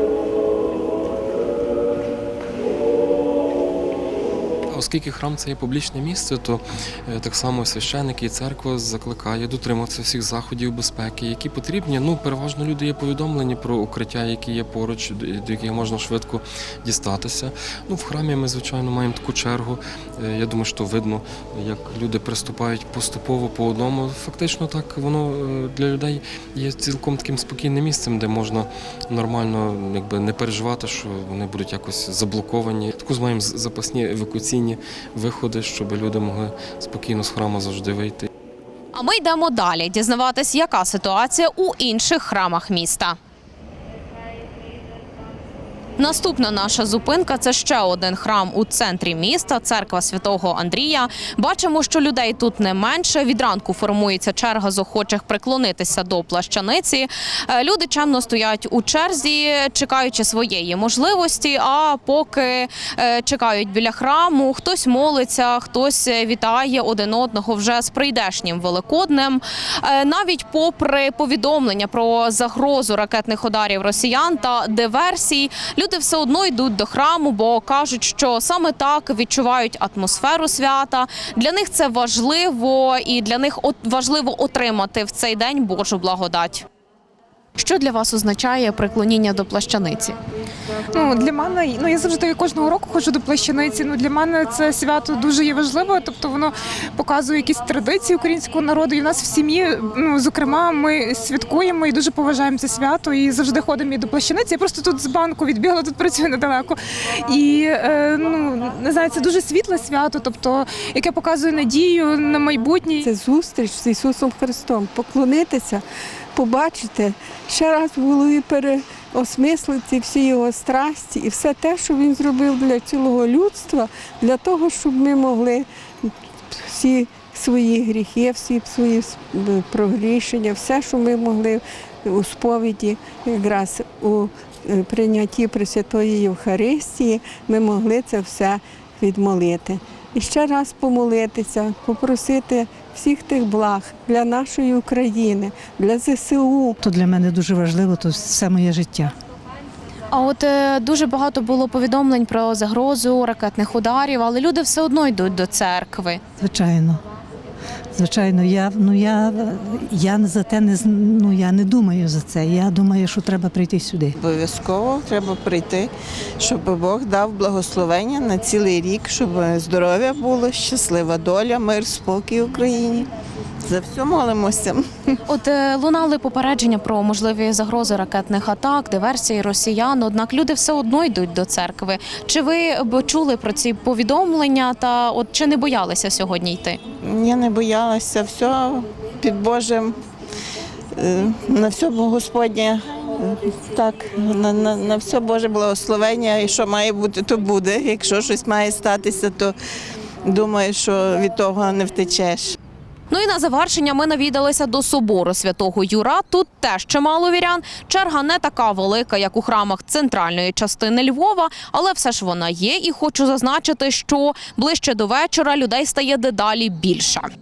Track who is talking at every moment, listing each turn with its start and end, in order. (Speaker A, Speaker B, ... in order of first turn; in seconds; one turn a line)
Speaker A: 4.7-38.3
Speaker B: 38.9-43.2
Speaker B: 46.0-86.7
Speaker B: 87.6-90.2
Speaker C: 90.9-113.1
Speaker D: 113.0-115.8
Speaker D: 116.3-146.8
Speaker E: 146.8-149.1
Speaker B: 150.1-156.2
Speaker E: 156.4-157.0
Speaker E: 157.9-164.2
Speaker F: 164.2-173.1
Speaker F: 173.7-174.8
Speaker B: 175.3-186.8
Speaker F: 187.0-190.0
Speaker F: 190.9-199.6
Speaker F: 200.3-202.6
Speaker B: 203.1-217.3